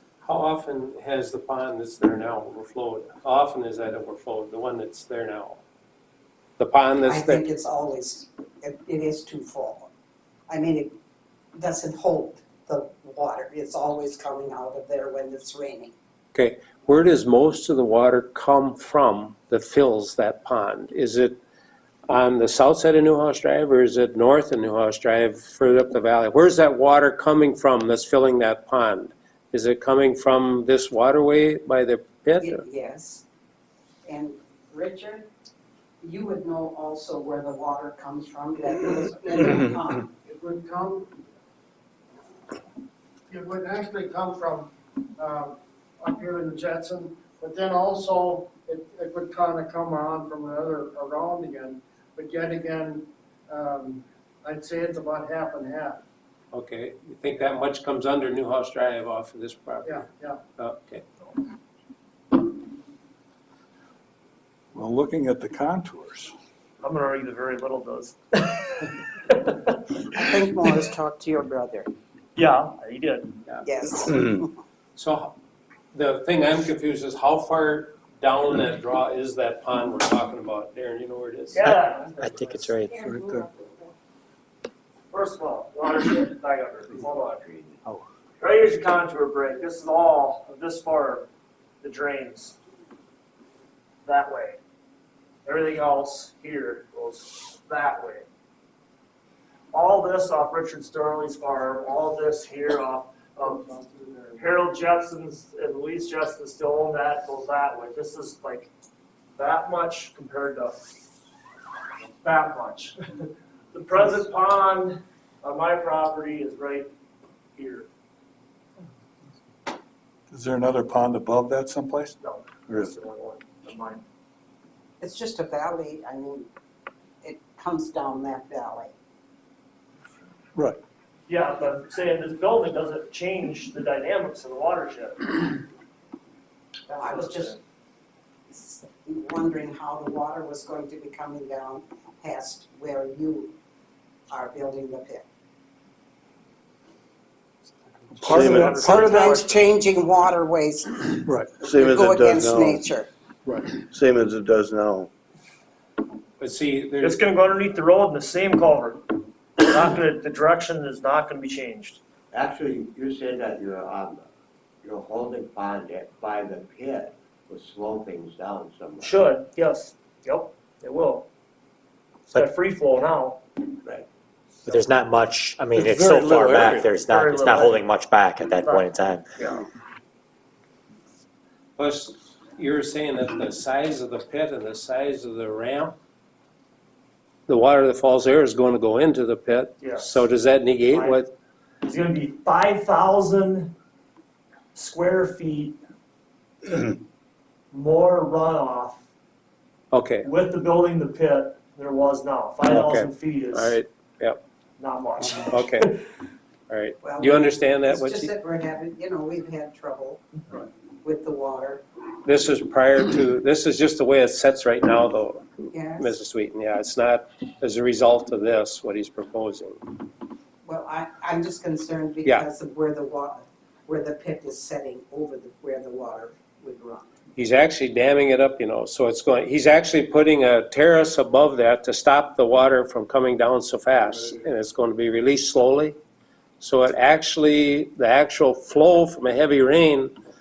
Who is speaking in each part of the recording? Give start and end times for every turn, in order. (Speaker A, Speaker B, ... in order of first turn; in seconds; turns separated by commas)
Speaker A: 0.2-5.6, Speaker A: 6.6-7.4, Speaker B: 7.0-9.9, Speaker B: 10.5-10.9, Speaker B: 11.6-15.9, Speaker A: 16.3-21.4, Speaker A: 22.1-32.6, Speaker B: 32.4-33.2, Speaker B: 34.1-35.3, Speaker B: 36.0-40.1, Speaker C: 40.2-41.2, Speaker C: 43.3-56.0, Speaker A: 56.5-60.1, Speaker C: 59.9-60.4, Speaker A: 60.6-61.0, Speaker D: 64.7-66.3, Speaker E: 66.8-68.8, Speaker B: 70.0-71.9, Speaker E: 72.4-73.3, Speaker B: 73.7-74.5, Speaker A: 75.0-75.3, Speaker A: 75.9-81.7, Speaker E: 81.5-82.1, Speaker F: 81.7-83.4, Speaker B: 82.9-83.8, Speaker E: 85.2-87.4, Speaker G: 87.1-87.6, Speaker E: 88.4-91.2, Speaker E: 91.8-92.5, Speaker E: 94.1-94.6, Speaker E: 95.5-98.2, Speaker E: 99.7-103.7, Speaker C: 103.3-104.6, Speaker E: 104.3-108.7, Speaker E: 109.4-110.7, Speaker E: 112.2-112.9, Speaker E: 113.7-116.9, Speaker E: 117.6-117.9, Speaker D: 120.3-122.2, Speaker E: 122.2-124.0, Speaker B: 125.0-126.5, Speaker B: 127.2-128.9, Speaker E: 131.3-135.5, Speaker B: 136.9-137.6, Speaker E: 137.1-137.6, Speaker B: 138.5-143.6, Speaker B: 144.3-145.3, Speaker D: 148.1-148.8, Speaker H: 148.3-149.1, Speaker E: 148.3-149.5, Speaker B: 148.3-153.1, Speaker H: 151.6-152.8, Speaker H: 153.8-155.1, Speaker A: 156.4-157.2, Speaker E: 157.0-158.9, Speaker E: 159.6-162.0, Speaker G: 162.3-164.2, Speaker G: 164.8-169.4, Speaker E: 169.0-171.3, Speaker E: 172.3-173.4, Speaker F: 174.7-179.2, Speaker E: 175.8-177.9, Speaker A: 176.4-176.8, Speaker E: 178.6-178.9, Speaker A: 181.8-186.0, Speaker A: 187.5-191.3, Speaker E: 189.8-190.2, Speaker E: 190.9-191.2, Speaker E: 191.9-193.7, Speaker E: 194.8-195.8, Speaker E: 197.7-199.0, Speaker A: 199.9-200.2, Speaker E: 200.3-203.8, Speaker A: 202.7-204.4, Speaker E: 204.8-205.9, Speaker A: 205.5-205.9, Speaker A: 206.7-208.3, Speaker B: 207.0-210.2, Speaker B: 211.0-211.8, Speaker A: 212.2-219.8, Speaker B: 215.7-216.1, Speaker B: 220.7-227.1, Speaker A: 227.4-236.0, Speaker A: 236.6-240.1